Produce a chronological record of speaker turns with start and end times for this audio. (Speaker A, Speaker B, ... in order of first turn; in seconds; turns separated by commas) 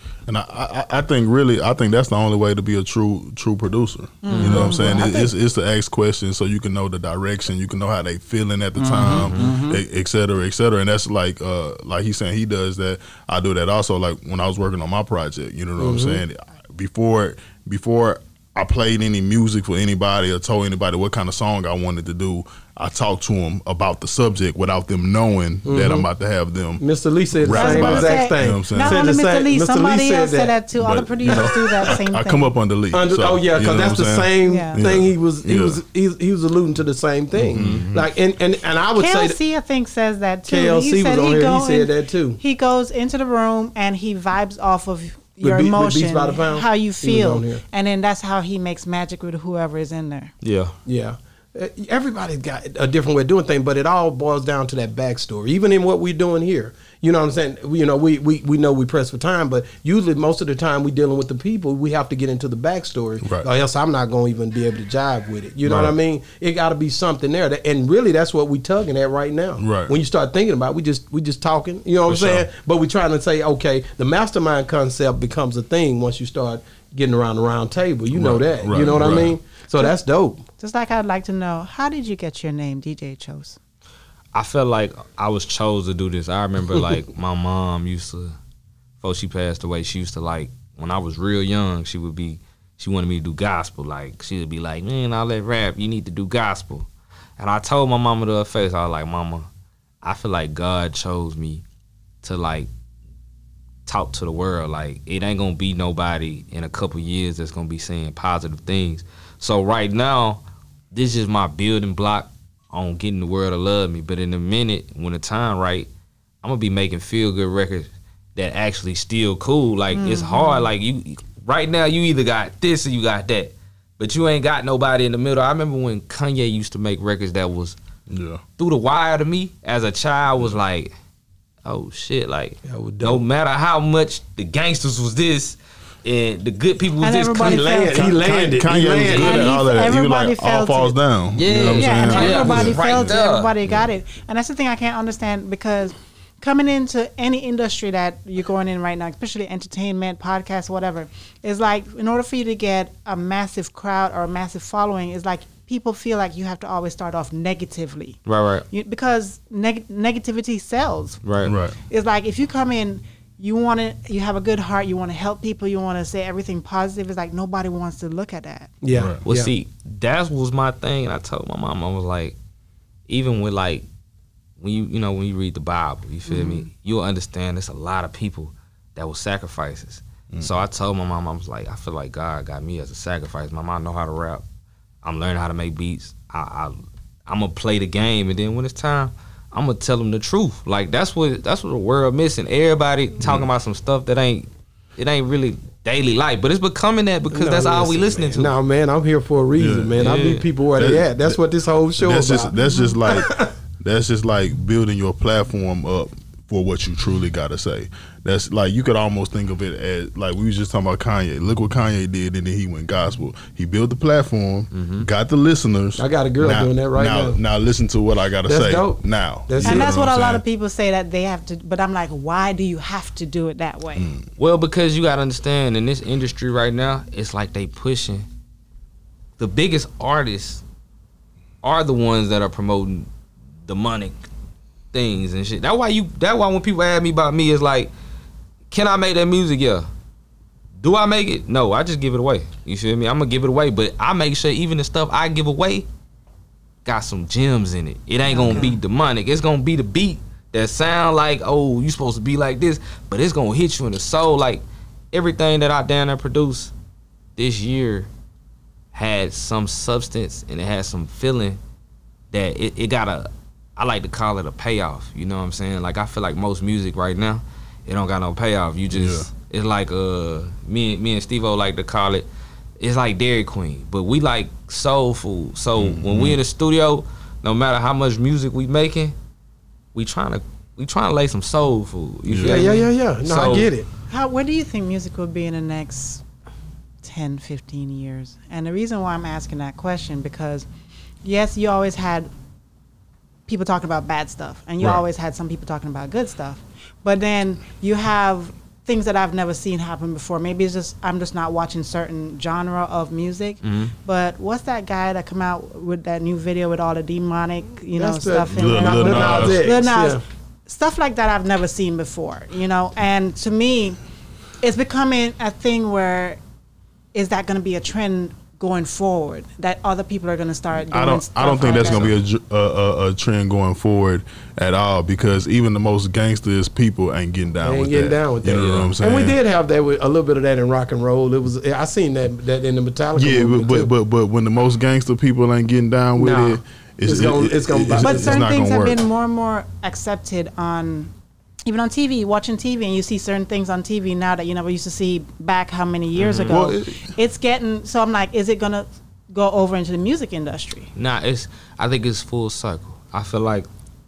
Speaker A: 0.3-26.8, Speaker B: 4.2-5.2, Speaker C: 4.3-4.8, Speaker D: 4.4-5.3, Speaker D: 8.8-9.8, Speaker C: 9.0-9.6, Speaker D: 15.8-16.2, Speaker D: 25.6-26.1, Speaker D: 26.8-30.6, Speaker A: 27.4-29.1, Speaker B: 27.5-32.5, Speaker A: 30.8-35.8, Speaker D: 31.3-31.6, Speaker D: 32.9-39.4, Speaker B: 34.4-34.8, Speaker A: 37.4-38.1, Speaker C: 37.5-37.8, Speaker B: 39.0-50.3, Speaker D: 40.5-42.4, Speaker D: 45.4-47.6, Speaker C: 50.4-50.7, Speaker D: 50.9-80.4, Speaker A: 65.6-66.0, Speaker A: 69.6-69.9, Speaker A: 72.1-72.5, Speaker A: 78.1-79.4, Speaker B: 80.6-83.6, Speaker C: 84.3-88.4, Speaker C: 89.0-99.5, Speaker C: 100.0-101.6, Speaker C: 102.2-102.7, Speaker C: 103.9-110.4, Speaker C: 110.9-115.9, Speaker C: 116.4-127.8, Speaker B: 119.9-120.7, Speaker A: 128.1-128.4, Speaker C: 128.6-130.9, Speaker C: 131.7-137.7, Speaker D: 132.7-133.2, Speaker B: 137.0-138.0, Speaker D: 137.4-139.5, Speaker A: 137.9-143.2, Speaker B: 139.1-141.0, Speaker C: 141.3-143.5, Speaker B: 141.6-161.2, Speaker C: 158.3-158.7, Speaker C: 161.2-161.6, Speaker A: 161.4-161.8, Speaker B: 161.9-168.7, Speaker D: 168.8-169.5, Speaker A: 168.9-169.2, Speaker C: 169.2-172.4, Speaker C: 173.1-173.9, Speaker C: 174.6-184.4, Speaker B: 176.3-176.7, Speaker A: 180.3-180.6, Speaker C: 185.0-198.6, Speaker A: 193.2-193.5, Speaker D: 197.3-202.5, Speaker A: 199.6-200.0, Speaker C: 200.0-200.5, Speaker A: 200.8-201.4, Speaker A: 202.0-220.4, Speaker B: 202.5-203.0, Speaker D: 203.1-203.5, Speaker C: 214.7-215.1, Speaker D: 216.0-217.4, Speaker D: 218.5-219.9, Speaker B: 219.6-224.1, Speaker A: 224.0-224.3, Speaker C: 224.4-228.3, Speaker C: 229.4-230.6, Speaker C: 231.6-233.1, Speaker C: 233.7-234.2, Speaker C: 234.9-237.9, Speaker C: 238.7-239.9, Speaker C: 240.8-245.9, Speaker C: 246.8-256.7, Speaker B: 248.3-248.8, Speaker C: 257.4-258.1, Speaker C: 258.9-261.6, Speaker C: 262.3-272.3, Speaker A: 268.9-269.3, Speaker C: 272.8-279.1, Speaker A: 275.8-276.4, Speaker C: 279.9-283.7, Speaker A: 282.3-282.7, Speaker D: 282.4-283.9, Speaker B: 284.1-286.2, Speaker B: 287.0-290.7, Speaker B: 291.2-292.3, Speaker B: 293.5-314.0, Speaker C: 303.6-303.9, Speaker D: 308.0-310.2, Speaker A: 308.5-309.7, Speaker B: 314.6-316.4, Speaker B: 317.1-322.2, Speaker A: 320.9-329.4, Speaker D: 327.6-333.9, Speaker C: 328.5-328.9, Speaker A: 333.1-339.0, Speaker D: 336.2-338.4, Speaker B: 338.0-341.1, Speaker B: 341.7-350.9, Speaker C: 346.2-346.6, Speaker A: 346.5-347.1, Speaker C: 350.9-353.7